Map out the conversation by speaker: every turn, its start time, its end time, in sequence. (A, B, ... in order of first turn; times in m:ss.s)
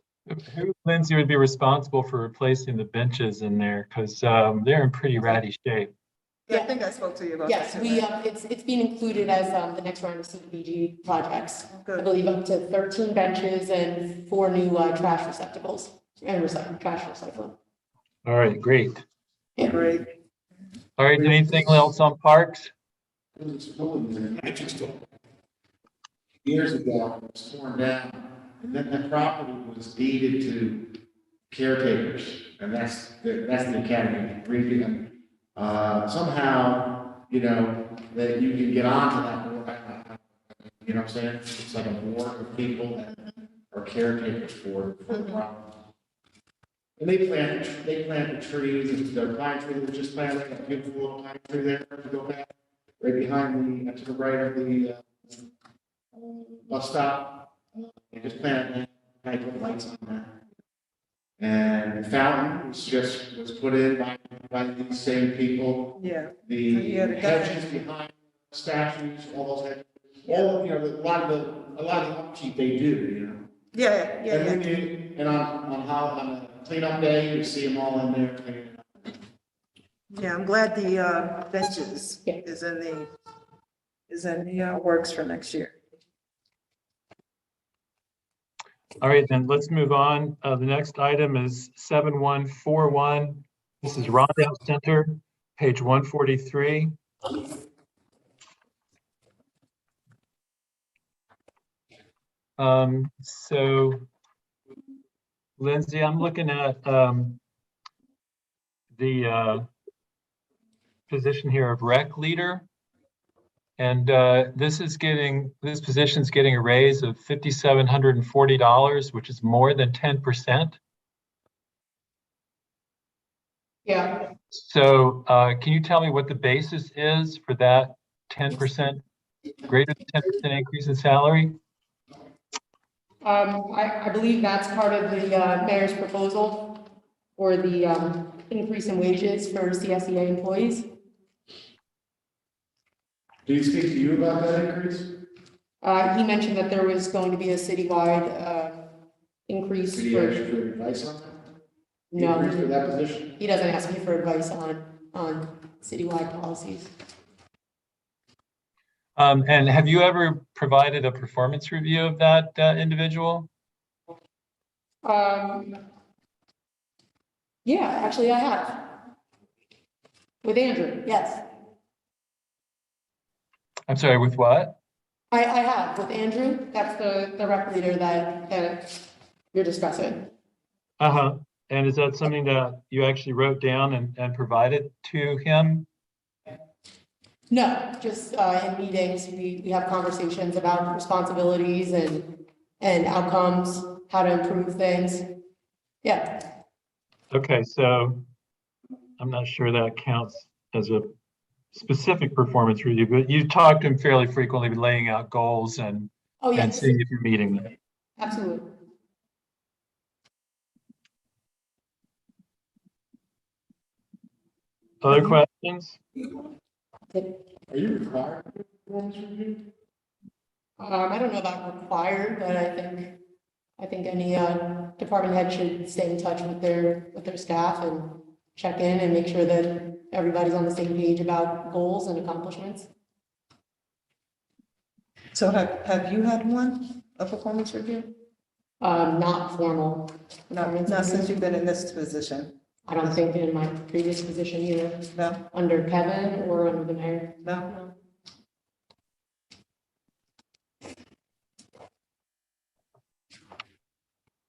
0:00.3-0:05.9 A
0:06.5-0:08.0 B
0:07.4-0:17.6 C
0:11.7-0:12.1 B
0:18.2-0:19.0 A
0:19.6-0:19.8 C
0:19.6-0:20.1 B
0:21.0-0:22.7 A
0:23.4-0:25.1 D
0:26.4-0:31.0 D
0:31.5-0:45.7 D
0:47.0-0:55.4 D
0:56.1-1:00.3 D
1:01.4-1:13.4 D
1:06.0-1:07.7 B
1:13.7-1:14.6 B
1:14.3-1:19.2 D
1:20.1-1:23.1 B
1:24.1-1:25.8 B
1:29.0-1:36.9 A
1:42.6-1:44.0 A
1:45.6-1:47.4 A
1:49.0-1:49.7 A
1:51.1-1:52.6 A
1:53.8-2:00.8 A
2:03.8-2:04.2 C
2:04.5-2:09.0 A
2:09.6-2:11.6 A
2:13.2-2:16.8 C
2:17.4-2:20.9 C
2:23.4-2:25.1 D
2:25.8-2:28.9 C
2:29.5-2:30.4 C
2:29.9-2:31.4 D
2:32.1-2:32.8 C
2:32.2-2:33.4 D
2:33.4-2:36.9 C
2:39.2-2:43.5 A
2:45.0-2:45.8 C
2:47.6-2:49.0 C
2:50.4-2:51.4 C
2:53.9-2:54.8 A
2:55.3-3:00.3 C
3:01.0-3:05.8 A
3:07.5-3:15.4 C
3:16.0-3:16.5 C
3:17.3-3:18.2 A
3:19.2-3:21.1 A
3:21.7-3:27.7 A
3:26.4-3:27.0 C
3:28.2-3:28.7 C
3:35.0-3:36.0 A
3:37.7-3:39.6 D
3:40.8-3:43.2 C
3:43.8-3:52.9 C
3:55.3-3:58.1 B
3:58.8-4:01.4 C
4:00.5-4:02.5 B
4:02.8-4:07.4 C
4:05.1-4:05.4 B
4:07.4-4:07.9 B